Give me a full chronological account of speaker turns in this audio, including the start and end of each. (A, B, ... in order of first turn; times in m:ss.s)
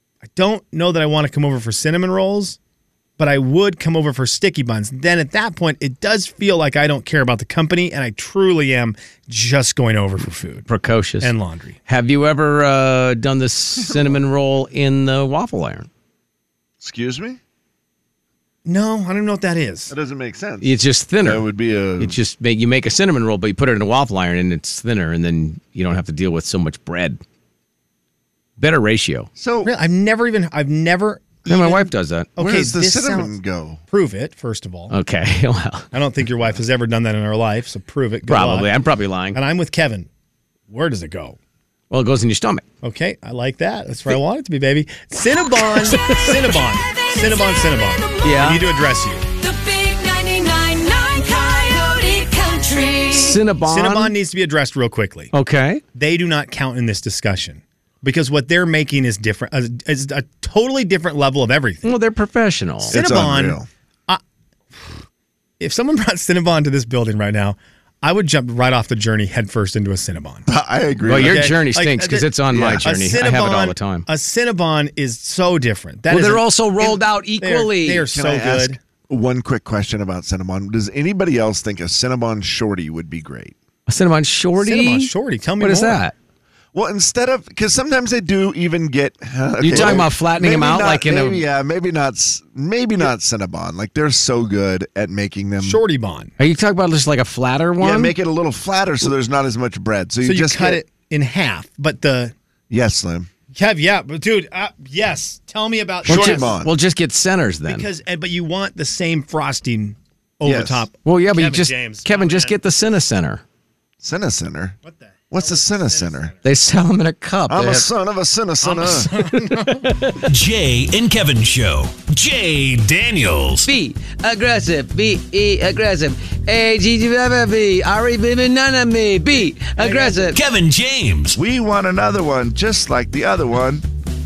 0:00.3-0:02.6 A
0:03.2-0:10.6 A
0:10.7-0:11.3 B
0:11.2-0:11.8 A
0:11.9-0:15.9 B
0:13.8-0:14.1 C
0:16.8-0:17.4 C
0:18.6-0:19.9 A
0:19.9-0:22.2 C
0:20.6-0:21.4 B
0:22.0-0:27.2 B
0:28.6-0:29.3 B
0:29.4-0:29.7 C
0:29.6-0:33.3 A
0:31.5-0:32.3 B
0:32.4-0:33.8 C
0:33.9-0:34.9 A
0:34.9-0:35.9 B
0:35.9-0:38.7 A
0:38.3-0:39.4 B
0:39.3-0:40.1 A
0:40.7-0:41.4 A
0:41.9-0:42.6 B
0:42.8-0:49.2 A
0:45.7-0:46.4 B
0:46.6-0:48.2 D
0:48.2-0:48.6 B
0:49.4-0:53.4 D
0:53.1-0:54.1 B
0:53.6-0:55.3 A
0:55.3-0:55.8 B
0:55.9-1:01.9 A
1:01.8-1:02.9 B
1:02.9-1:03.7 C
1:02.9-1:04.2 A
1:05.6-1:10.5 A
1:10.5-1:11.6 C
1:11.0-1:14.0 B
1:11.1-1:12.3 A
1:12.5-1:12.8 C
1:12.8-1:18.8 A
1:16.1-1:18.0 B
1:18.1-1:23.6 C
1:23.9-1:26.1 B
1:24.6-1:26.0 A
1:26.7-1:35.8 C
1:29.6-1:31.4 B
1:35.6-1:36.3 A
1:36.4-1:38.1 B
1:37.8-1:40.8 C
1:40.2-1:42.3 A
1:42.7-1:43.3 C
1:43.5-1:46.5 A
1:46.0-1:46.7 C
1:46.1-1:47.9 B
1:47.7-1:52.5 A
1:50.4-1:50.8 C
1:51.0-1:53.4 B
1:54.0-1:54.8 C
1:54.8-1:56.3 A
1:55.3-1:56.3 C
1:56.4-1:57.9 B
1:57.5-1:59.1 C
1:58.6-1:59.9 A
1:59.5-2:00.2 B
2:00.2-2:03.7 E
2:03.6-2:10.4 B
2:09.8-2:10.3 A
2:10.3-2:11.4 E
2:11.3-2:13.9 C